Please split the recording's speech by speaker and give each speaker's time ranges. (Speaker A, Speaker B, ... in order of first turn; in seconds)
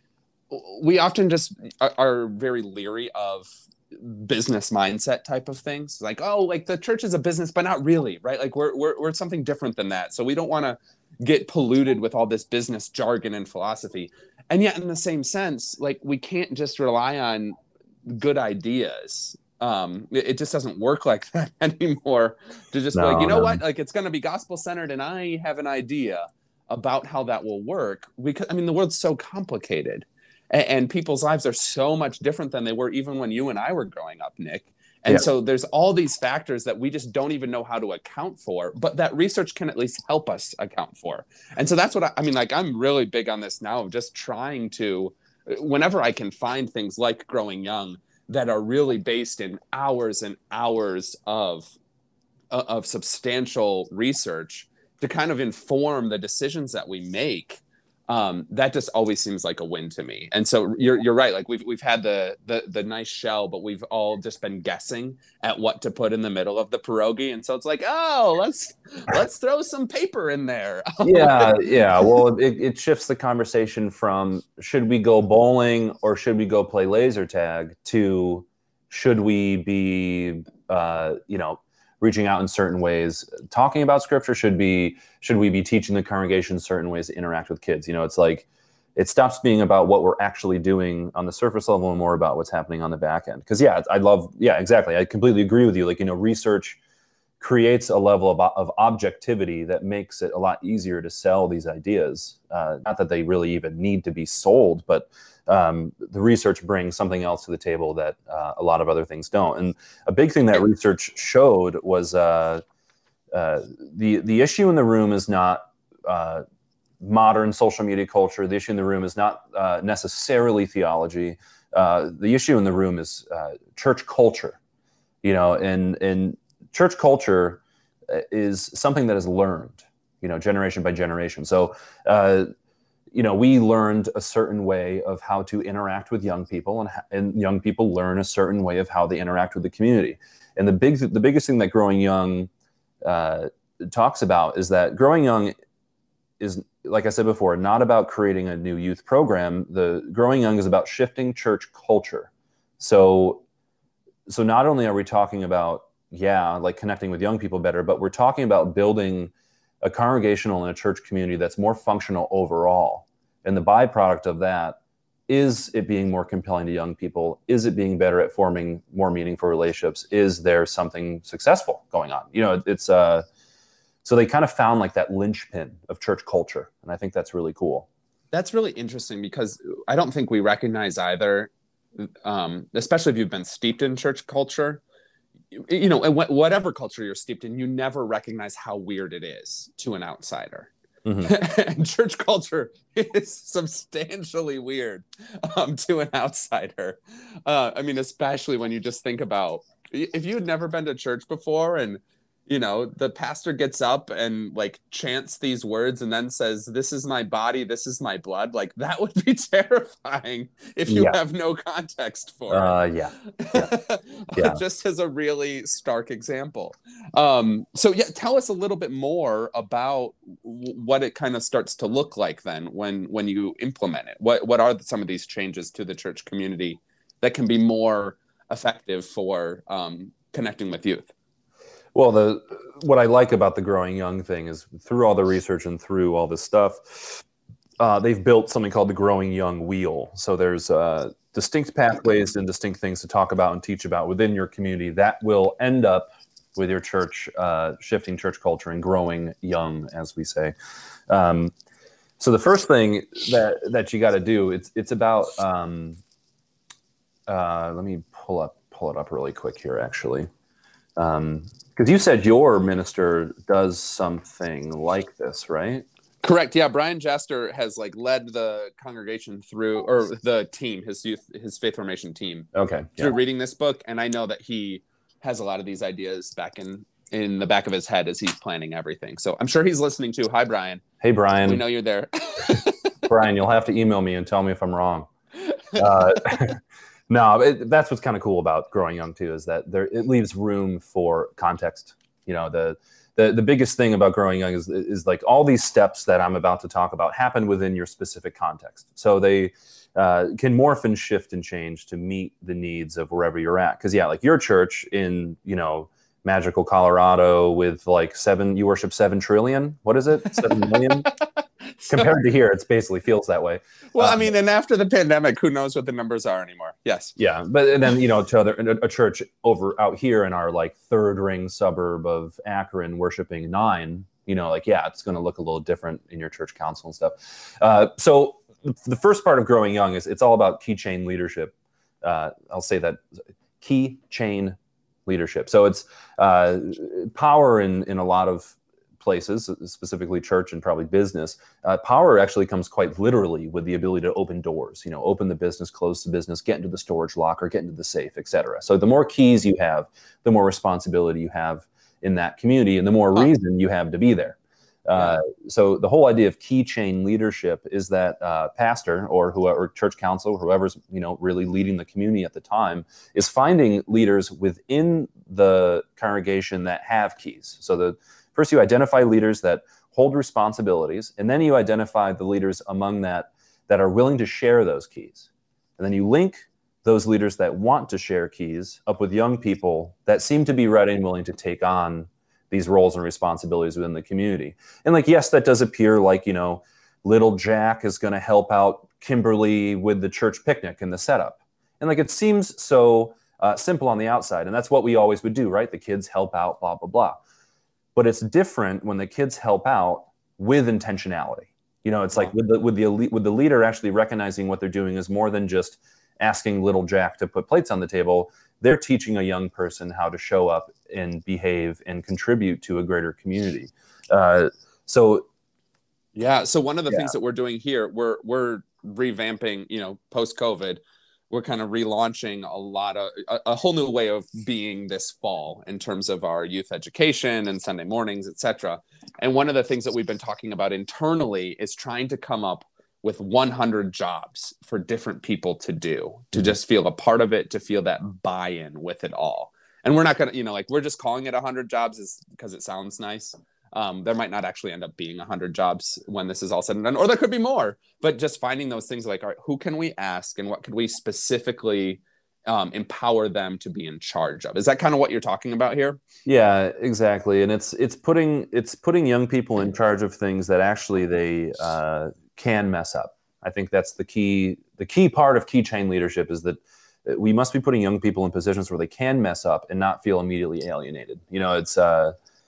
Speaker A: 0.5-51.7, 52.5-72.1, 178.3-184.8, 185.5-190.7, 191.2-212.8, 213.3-231.1, 266.2-280.8, 281.4-282.9, 285.4-285.8, 310.3-312.1, 313.9-317.1, 354.9-355.2, 416.1-456.0
Speaker B: 22.9-23.6, 71.0-96.8, 97.4-112.6, 113.3-116.4, 117.0-124.6, 125.2-132.5, 133.1-142.5, 143.0-145.5, 146.4-153.4, 154.3-173.2, 174.0-177.9, 191.0-191.3, 210.9-211.2, 212.5-213.7, 214.3-214.6, 231.9-237.2, 237.8-250.5, 251.1-251.5, 252.2-256.0, 257.3-260.3, 261.0-265.8, 272.5-273.1, 281.0-281.6, 283.1-285.1, 285.7-311.1, 311.9-314.3, 317.2-333.0, 333.6-397.2, 397.9-415.3, 456.2-472.1